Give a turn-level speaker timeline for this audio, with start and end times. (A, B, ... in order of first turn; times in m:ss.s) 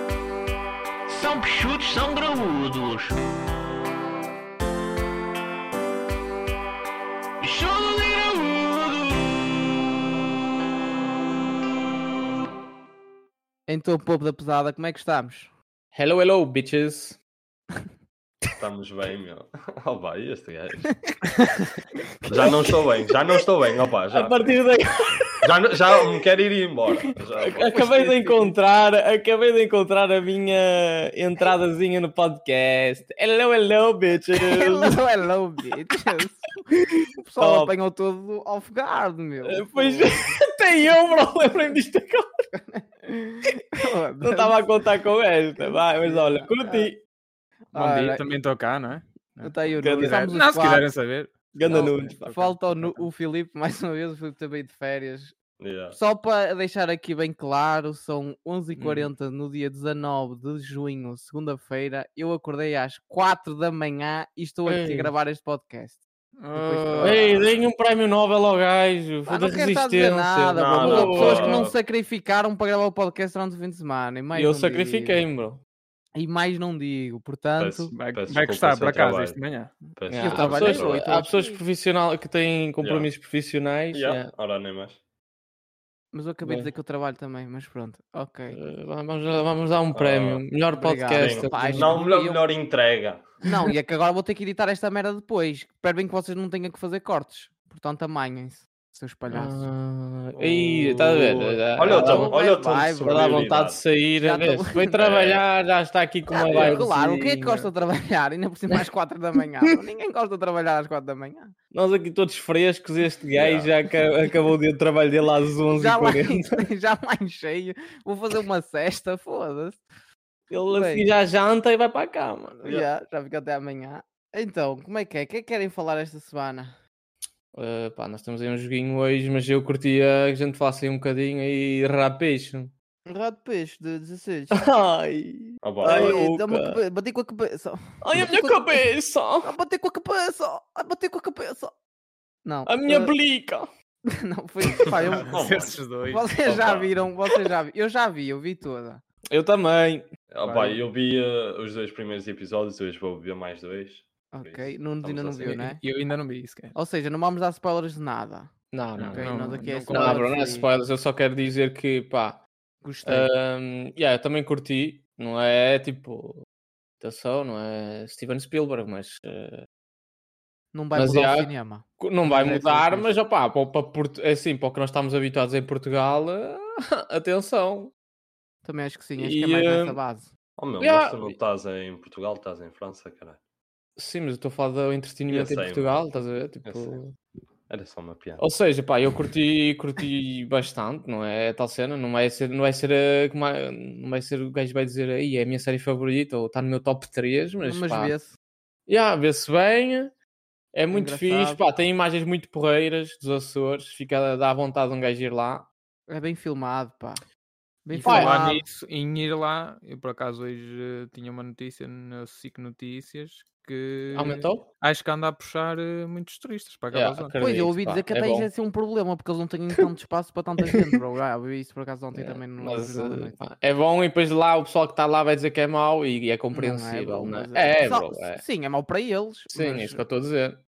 0:01.1-0:03.1 A
0:07.4-0:09.4 A
0:13.7-0:15.5 B
0:15.9-0:17.2 C
0:18.6-0:21.0 D
0:22.2-0:22.8 B
0:22.3-0:24.4 D
0:24.1-0:25.2 C
0:25.4-0:27.7 D
0:27.4-0:35.0 C
0:27.4-0:28.6 B
0:34.4-0:36.6 B
0:37.2-0:40.4 B
0:37.4-0:37.7 C
0:39.4-0:42.3 C
0:42.5-0:44.6 B
0:44.2-0:47.0 C
0:45.7-0:46.9 B
0:47.7-0:48.2 B
0:47.7-0:53.0 E
0:49.4-0:50.9 B
0:49.8-0:50.3 C
0:51.6-0:52.3 C
0:51.7-0:55.3 B
0:55.6-0:56.0 D
0:55.9-1:07.4 B
0:58.8-0:59.1 C
1:04.6-1:05.1 C
1:06.4-1:07.3 E
1:07.0-1:11.6 C
1:09.3-1:15.2 B
1:10.5-1:11.8 D
1:14.3-1:15.6 C
1:16.1-1:17.9 B
1:17.6-1:19.4 D
1:17.9-1:19.7 E
1:20.0-1:21.0 D
1:20.1-1:24.3 C
1:20.1-1:21.6 B
1:22.8-1:23.1 D
1:23.9-1:25.0 D
1:26.1-1:28.6 B
1:26.4-1:26.7 C
1:28.5-1:32.0 C
1:29.9-1:30.4 D
1:30.7-1:32.4 B
1:31.2-1:33.3 D
1:33.4-1:39.7 B
1:39.3-1:42.3 C
1:40.3-1:43.8 D
1:41.9-1:43.4 B
1:43.0-1:47.7 C
1:44.2-1:45.0 B
1:45.0-1:45.4 D
1:46.4-1:46.8 D
1:46.5-1:51.5 B
1:51.7-1:56.6 C
1:53.4-1:53.7 D
1:55.8-1:59.8 B
2:00.5-2:02.6 C
2:00.7-2:01.1 B
2:02.5-2:06.8 B
2:07.5-2:12.7 C
2:13.1-2:14.6 B
2:14.5-2:16.8 C
2:15.6-2:16.2 D
2:15.8-2:18.8 B
2:18.0-2:19.5 C
2:19.4-2:21.7 B
2:22.4-2:23.1 B
2:22.6-2:23.7 C
2:24.1-2:25.4 B
2:25.2-2:26.3 E
2:25.3-2:25.8 D
2:26.1-2:29.0 B
2:26.4-2:26.9 D
2:29.3-2:30.1 C
2:30.3-2:35.6 D
2:34.3-2:35.8 B
2:35.4-2:36.7 E
2:36.7-2:38.5 B
2:38.7-2:42.4 C
2:39.0-2:40.2 E
2:39.2-2:40.7 B
2:42.8-2:43.3 B
2:43.0-2:46.4 C
2:47.0-2:49.6 C
2:50.7-2:53.1 B
2:50.9-2:57.9 C
2:58.6-3:00.3 B
2:59.2-3:00.0 C
3:00.6-3:03.4 D
3:00.8-3:01.4 C
3:04.0-3:07.1 C
3:05.3-3:06.0 D
3:06.6-3:07.0 D
3:07.7-3:08.4 D
3:08.4-3:18.1 C
3:17.6-3:18.4 B
3:18.9-3:20.1 C
3:20.7-3:25.7 C
3:20.9-3:21.6 B
3:26.1-3:27.2 B
3:27.8-3:28.6 B
3:27.9-3:37.3 E
3:28.0-3:28.6 C
3:34.1-3:34.6 C
3:36.9-3:38.5 C
3:37.4-3:43.3 B
3:42.1-3:48.4 C
3:46.5-3:50.0 B
3:49.5-3:50.6 C